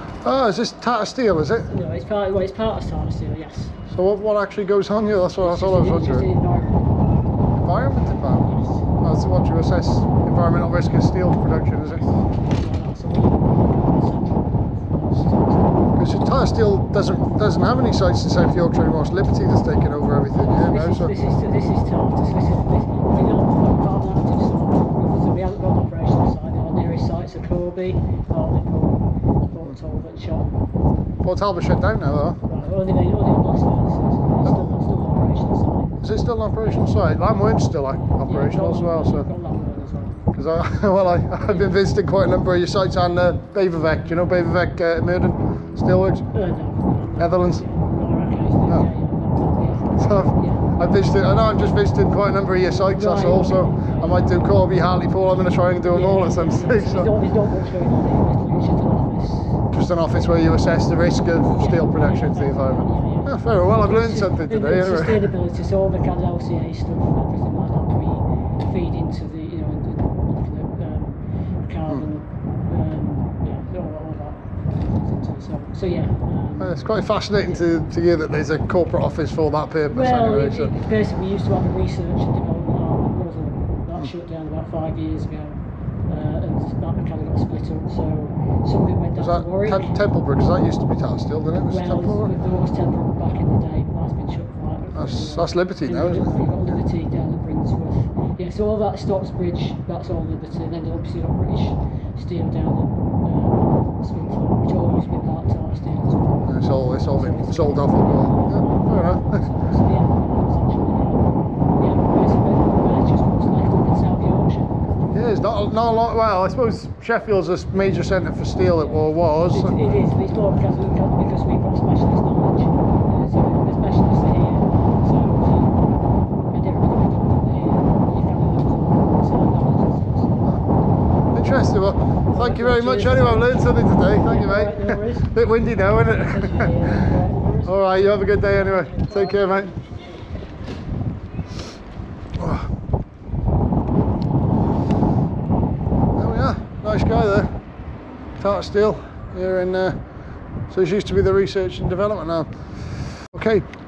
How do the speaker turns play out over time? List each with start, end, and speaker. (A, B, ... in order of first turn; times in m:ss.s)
0:00.2-0:01.7 A
0:01.7-0:03.8 B
0:03.9-0:06.3 A
0:05.4-0:07.2 B
0:07.6-0:08.5 A
0:08.4-0:08.9 B
0:09.0-0:12.2 A
0:12.3-0:15.9 B
0:15.9-0:21.1 A
0:20.3-0:30.5 B
0:31.2-0:32.4 A
0:32.5-0:36.0 B
0:34.4-0:34.7 A
0:36.0-0:39.3 A
0:36.6-0:37.0 B
0:38.2-0:40.2 B
0:40.3-0:46.2 A
0:41.3-0:41.7 B
0:46.3-0:50.8 B
0:47.2-0:47.6 A
0:50.0-0:57.1 A
0:52.7-0:54.7 B
0:55.9-0:59.6 B
0:59.7-1:05.3 A
1:01.4-1:17.7 B
1:16.6-1:20.7 A
1:19.9-1:30.0 B
1:29.2-1:32.4 A
1:31.6-1:54.8 B
1:34.9-1:36.7 A
1:46.4-1:49.4 A
1:55.1-1:59.8 A
1:58.8-2:06.0 B
2:06.5-2:10.4 B
2:11.3-2:19.7 A
2:12.3-2:15.4 B
2:16.1-2:20.2 B
2:22.4-2:22.7 A
2:26.2-2:27.5 A
2:28.4-2:30.0 A
2:30.7-2:32.5 A
2:33.2-2:33.6 A